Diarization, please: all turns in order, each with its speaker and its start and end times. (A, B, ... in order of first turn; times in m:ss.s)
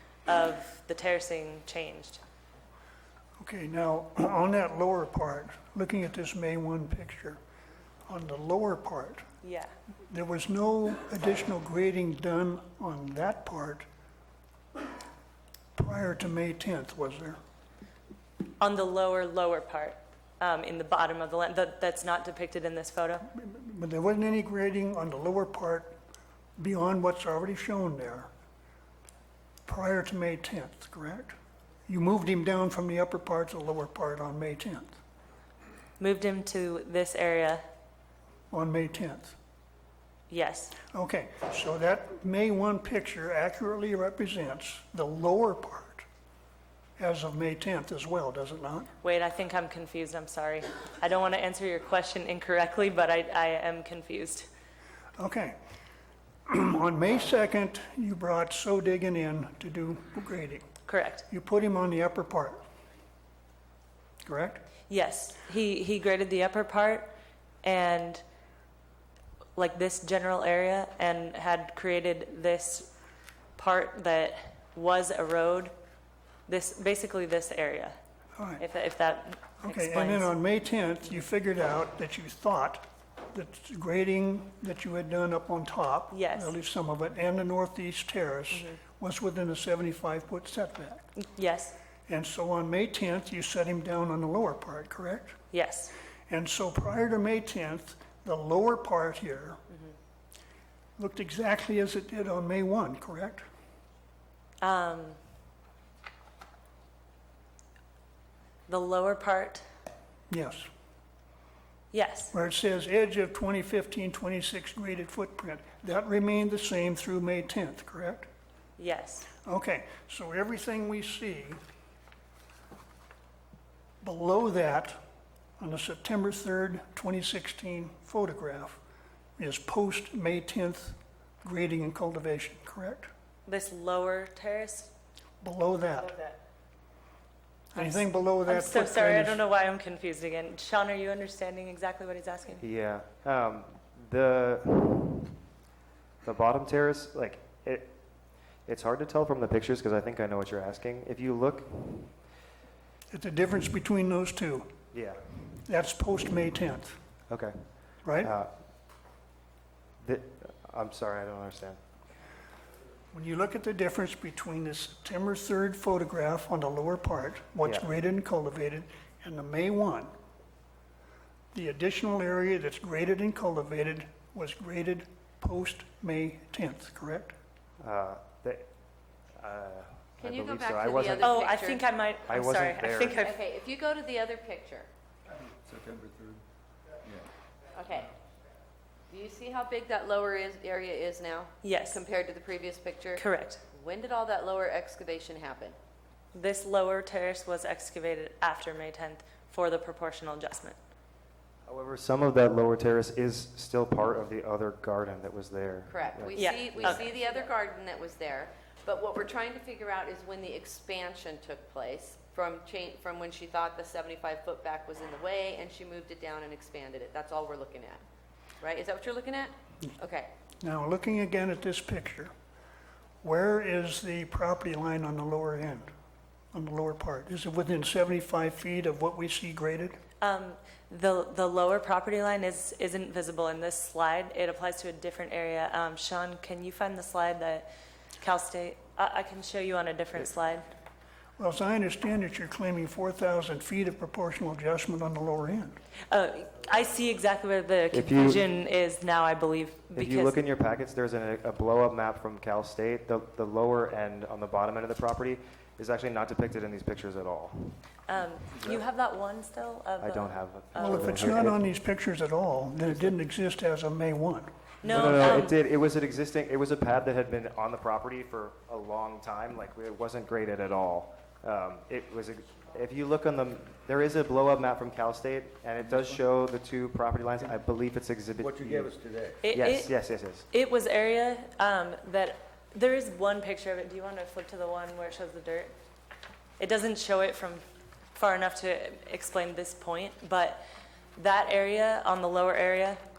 0:00.3-0:02.2 A
0:03.4-0:07.4 B
0:08.1-0:09.2 B
0:09.4-0:09.7 A
0:10.1-0:13.9 B
0:15.8-0:17.4 B
0:18.6-0:23.3 A
0:23.3-0:25.9 B
0:26.6-0:28.3 B
0:29.7-0:31.4 B
0:31.9-0:35.0 B
0:36.0-0:37.6 A
0:38.5-0:39.4 B
0:40.3-0:40.8 A
0:40.9-0:46.0 B
0:47.0-0:48.9 B
0:49.0-0:54.5 A
0:55.2-0:55.6 B
0:56.5-1:00.6 B
1:00.9-1:01.2 A
1:01.3-1:02.6 B
1:04.2-1:04.6 B
1:04.9-1:07.1 A
1:07.6-1:08.2 A
1:09.6-1:12.9 A
1:13.6-1:15.7 A
1:16.5-1:18.0 A
1:18.4-1:18.6 B
1:18.6-1:20.3 A
1:19.6-1:31.0 B
1:26.1-1:26.5 A
1:31.2-1:31.8 A
1:32.1-1:35.4 B
1:35.5-1:35.9 A
1:36.3-1:39.6 B
1:41.0-1:43.4 B
1:44.6-1:45.2 A
1:48.7-1:49.6 A
1:50.3-1:50.7 B
1:51.9-1:52.3 A
1:52.3-1:58.3 B
1:58.8-1:59.3 A
1:59.4-2:01.6 B
2:04.0-2:05.0 B
2:05.6-2:08.8 B
2:09.4-2:13.1 B
2:13.5-2:14.9 A
2:15.4-2:16.3 B
2:17.7-2:19.4 B
2:17.8-2:22.6 A
2:22.6-2:25.3 C
2:26.2-2:27.9 C
2:28.7-2:32.1 C
2:33.1-2:34.7 B
2:34.9-2:35.2 C
2:35.6-2:37.0 B
2:37.3-2:37.6 C
2:38.0-2:38.3 B
2:38.2-2:38.5 C
2:40.0-2:41.8 C
2:43.1-2:50.1 B
2:51.5-2:57.4 B
2:57.8-2:58.6 C
2:59.4-3:01.4 C
3:00.2-3:01.8 D
3:01.2-3:03.4 A
3:02.3-3:03.2 C
3:03.2-3:04.9 D
3:05.6-3:06.4 E
3:07.7-3:08.1 D
3:09.1-3:15.8 D
3:11.6-3:12.0 A
3:13.2-3:13.6 A
3:16.3-3:20.8 A
3:21.7-3:27.0 C
3:25.9-3:38.0 D
3:26.4-3:27.2 A
3:38.6-3:40.3 D
3:40.6-3:42.3 B
3:43.2-3:45.9 B
3:46.5-3:50.0 B
3:50.2-3:57.7 A
3:58.2-4:00.7 A
4:01.4-4:05.8 B
4:06.1-4:10.4 A
4:07.9-4:08.4 C
4:10.0-4:17.8 C
4:18.1-4:21.5 A
4:20.0-4:21.7 C
4:20.8-4:24.5 B
4:24.8-4:25.6 A
4:24.8-4:38.9 C
4:35.8-4:36.1 E
4:38.4-4:39.4 E
4:39.4-4:40.0 A
4:39.5-4:40.5 C
4:40.5-4:45.7 A
4:46.6-4:50.6 A
4:51.2-4:53.0 A